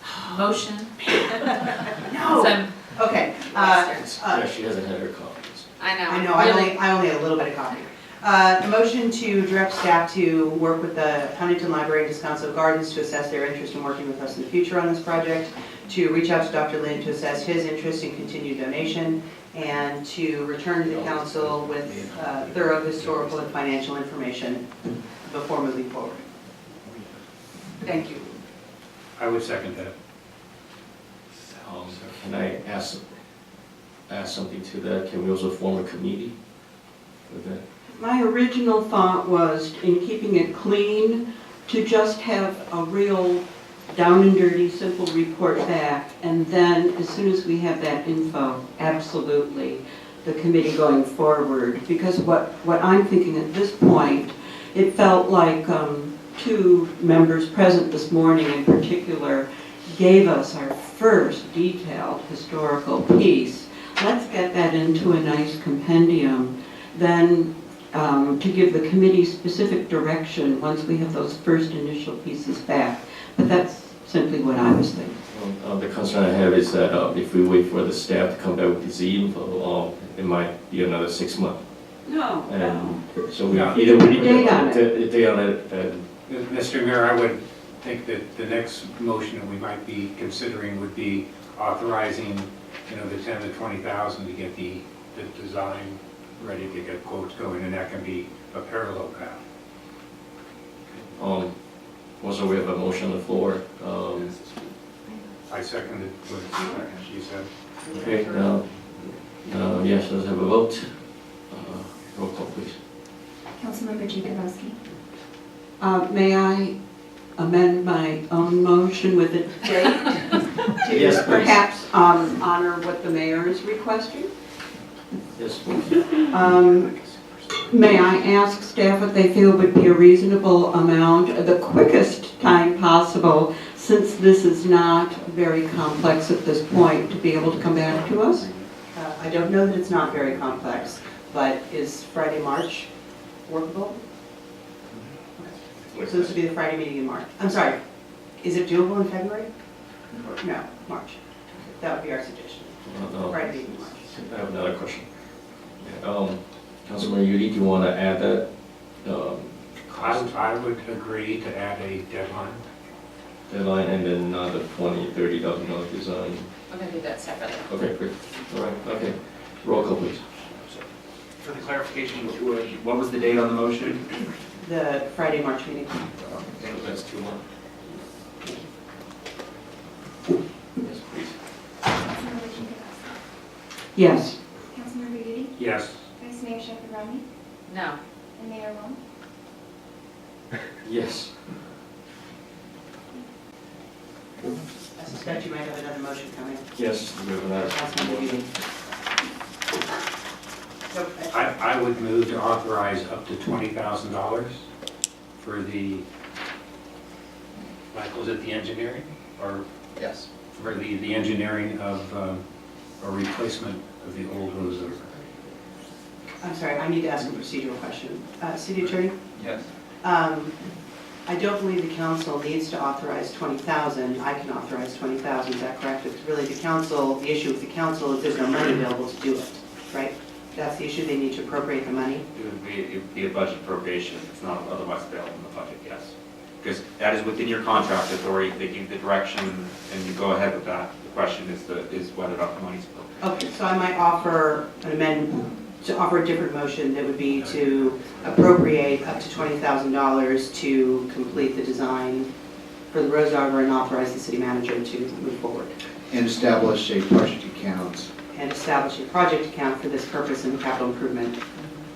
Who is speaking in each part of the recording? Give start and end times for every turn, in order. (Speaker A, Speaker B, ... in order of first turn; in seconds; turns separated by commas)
Speaker A: 0.3-0.9, Speaker B: 1.0-4.4, Speaker A: 2.3-2.6, Speaker A: 3.5-3.9, Speaker C: 4.0-5.7, Speaker A: 5.8-6.6, Speaker B: 6.0-24.7, Speaker B: 25.2-26.2, Speaker B: 27.8-28.2, Speaker D: 29.2-29.9, Speaker C: 31.6-33.0, Speaker C: 34.1-36.3, Speaker C: 37.3-37.6, Speaker E: 37.9-75.2, Speaker C: 75.3-81.6, Speaker E: 82.0-84.8, Speaker C: 82.5-86.1, Speaker D: 83.5-83.9, Speaker D: 86.3-99.4, Speaker C: 101.2-101.6, Speaker C: 102.2-104.3, Speaker F: 104.1-104.5, Speaker D: 105.5-107.5, Speaker F: 107.9-108.5, Speaker C: 107.9-112.8, Speaker G: 113.6-114.8, Speaker E: 115.8-116.7, Speaker E: 117.4-124.3, Speaker C: 120.9-121.6, Speaker C: 125.3-126.5, Speaker E: 126.3-126.9, Speaker E: 127.7-138.5, Speaker C: 137.3-138.7, Speaker B: 138.9-142.9, Speaker B: 143.4-144.0, Speaker C: 145.9-146.3, Speaker B: 146.1-147.8, Speaker B: 148.4-149.5, Speaker B: 150.4-154.0, Speaker C: 152.8-155.0, Speaker C: 155.8-158.4, Speaker C: 159.0-160.3, Speaker D: 159.9-162.6, Speaker C: 163.5-166.5, Speaker A: 166.7-167.6, Speaker C: 167.7-170.2, Speaker F: 171.4-174.2, Speaker B: 174.6-176.5, Speaker C: 176.6-177.4, Speaker C: 180.8-181.3, Speaker G: 182.0-183.1, Speaker E: 183.9-184.4, Speaker G: 184.7-185.5, Speaker D: 185.6-186.0, Speaker G: 186.2-187.2, Speaker A: 187.7-187.9, Speaker G: 188.4-189.0, Speaker C: 190.8-191.3, Speaker B: 194.9-196.7, Speaker C: 196.7-198.5, Speaker B: 197.6-198.5, Speaker B: 200.9-201.3, Speaker D: 201.3-204.6, Speaker D: 205.4-206.0, Speaker D: 207.9-209.6, Speaker H: 209.9-210.3, Speaker D: 210.5-212.4, Speaker D: 213.0-215.0, Speaker B: 216.4-219.2, Speaker F: 218.8-219.7, Speaker B: 220.0-220.5, Speaker B: 221.2-232.2, Speaker F: 232.3-243.2, Speaker B: 243.2-252.3, Speaker F: 247.4-248.2, Speaker B: 252.9-255.7, Speaker H: 256.1-258.1, Speaker B: 258.3-261.4